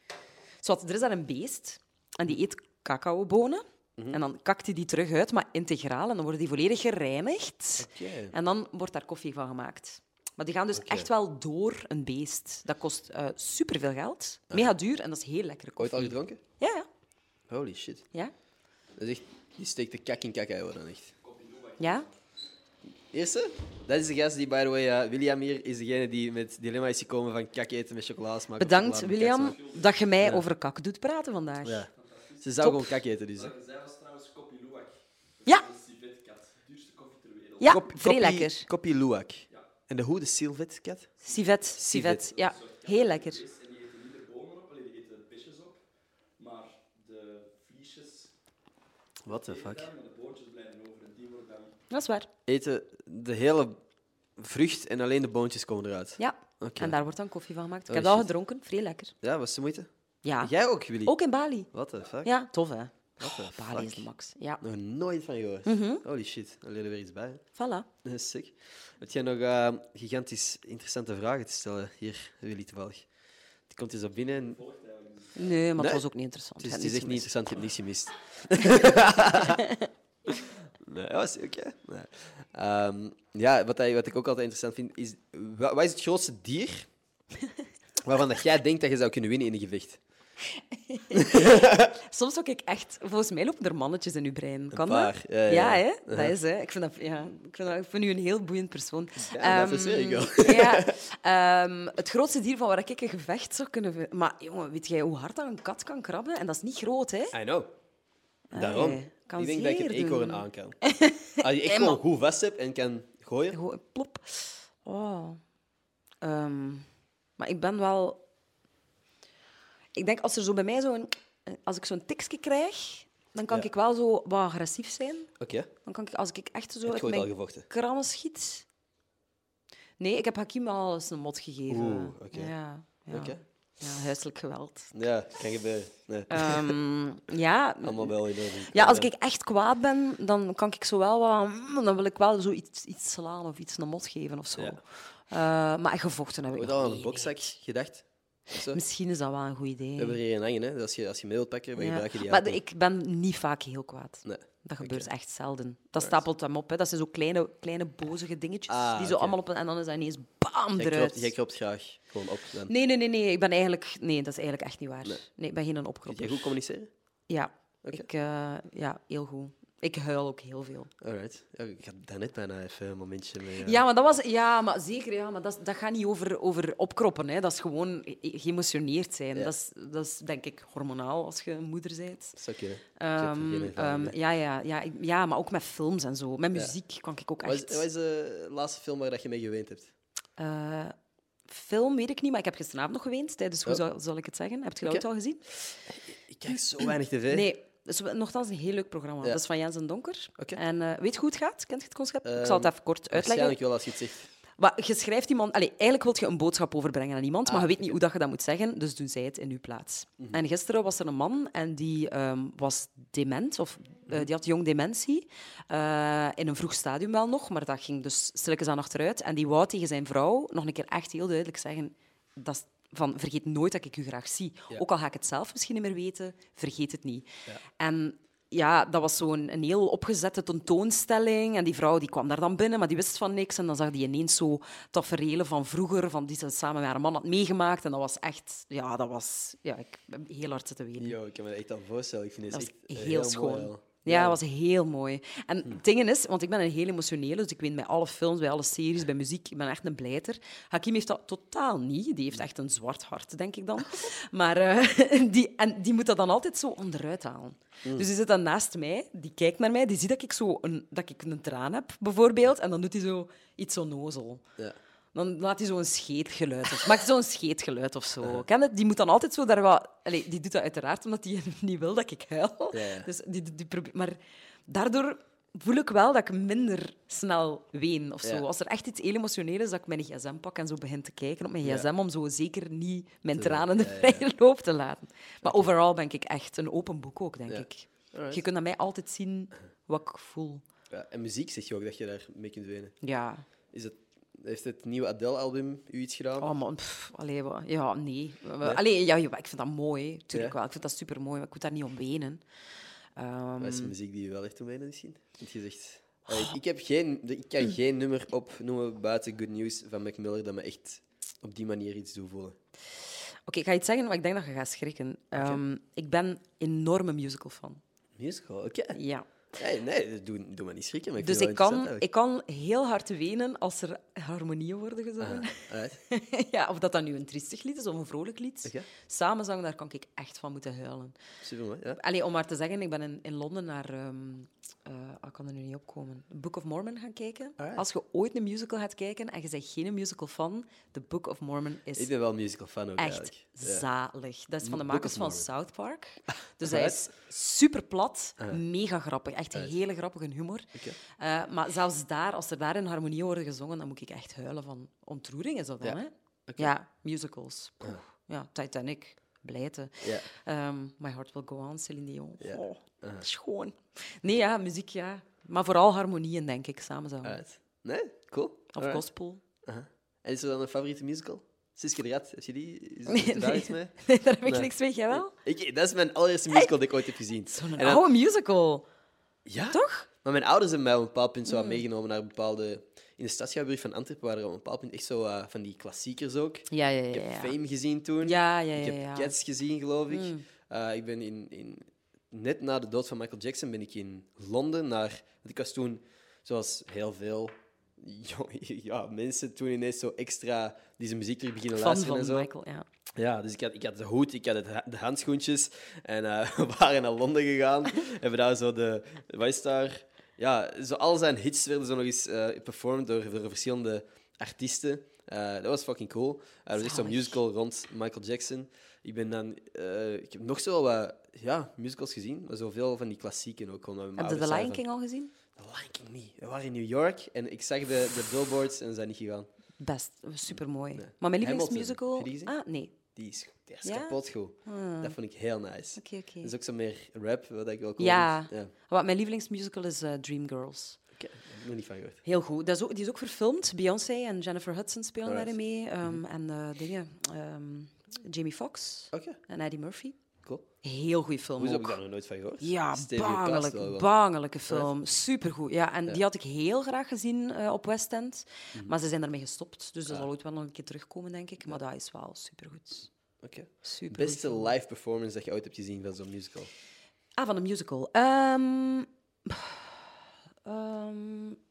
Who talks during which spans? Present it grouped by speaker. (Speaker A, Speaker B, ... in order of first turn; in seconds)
Speaker A: 0.6-16.9, 21.8-22.1, 28.6-31.8, 32.6-33.0, 37.6-38.7, 41.2-43.4, 51.9-52.3, 56.2-59.1, 60.2-61.7, 62.2-64.6, 65.7-66.0, 67.5-67.9, 75.3-77.7, 78.6-79.9, 90.5-107.3, 108.5-112.0, 113.5-115.4, 116.2-116.9, 117.4-118.2, 119.9-125.3, 125.8-128.6, 130.0-134.9, 136.3-147.5, 148.7-150.2, 151.8-161.3, 162.7-166.5, 167.3-170.9, 173.6-182.4, 183.0-187.8, 190.4-190.9, 191.4-195.4, 196.8-203.6, 204.6-241.2, 242.5-264.4, 265.1-290.6, 293.0-293.4, 296.4-302.4, 303.1-303.9, 306.3-306.6, 313.4-317.8, 318.9-319.3, 321.2-331.2, 331.9-342.1, 343.0-367.4, 368.7-369.4, 373.1-375.3, 376.5-378.9, 379.7-380.1, 381.5-381.8, 386.7-387.5, 388.2-389.3, 390.1-390.4, 401.7-402.9, 416.8-417.4, 424.2-425.3, 429.8-432.9, 433.8-435.1, 436.0-436.5, 438.0-441.0, 442.2-450.2, 450.8-452.0, 452.6-463.1, 463.8-464.7, 467.4-470.1, 470.6-471.6
Speaker B: 7.8-8.3, 10.8-11.1, 15.8-16.4, 17.5-18.0, 19.0-21.1, 23.1-29.6, 31.6-31.9, 32.4-33.5, 37.6-41.1, 41.7-42.3, 49.2-49.9, 52.5-53.8, 54.4-57.0, 57.9-58.3, 59.2-61.1, 61.7-62.3, 63.2-64.0, 64.6-67.4, 68.0-73.1, 73.7-74.6, 75.8-76.0, 76.6-79.6, 80.3-86.9, 88.0-90.0, 91.1-91.9, 94.7-96.3, 99.2-101.0, 107.3-107.7, 108.5-110.8, 111.4-113.6, 125.4-125.7, 126.8-127.7, 131.7-132.5, 133.1-133.4, 134.9-136.7, 137.8-139.1, 146.5-148.8, 150.0-152.6, 154.2-155.1, 158.7-159.3, 160.8-162.7, 166.1-166.9, 171.0-173.8, 182.4-184.1, 187.4-189.9, 195.8-197.5, 202.2-204.3, 207.4-207.9, 241.0-244.4, 272.7-273.1, 281.6-281.9, 283.3-284.2, 287.5-288.4, 290.9-292.9, 293.7-296.5, 303.6-312.6, 315.3-315.6, 318.2-319.0, 319.5-322.0, 325.2-326.0, 331.4-332.0, 337.6-337.8, 341.9-343.9, 344.6-345.4, 346.6-347.0, 355.8-356.7, 360.0-360.3, 362.4-363.2, 367.2-369.1, 369.6-378.0, 379.4-402.5, 403.2-424.8, 425.5-429.5, 430.5-438.7, 441.1-442.2, 445.2-445.5, 449.1-449.4, 451.6-454.1, 463.4-466.7
Speaker C: 21.2-22.1, 29.4-29.9, 31.9-32.6, 33.3-37.7, 42.1-45.8, 46.4-48.3, 49.3-51.7, 74.4-75.6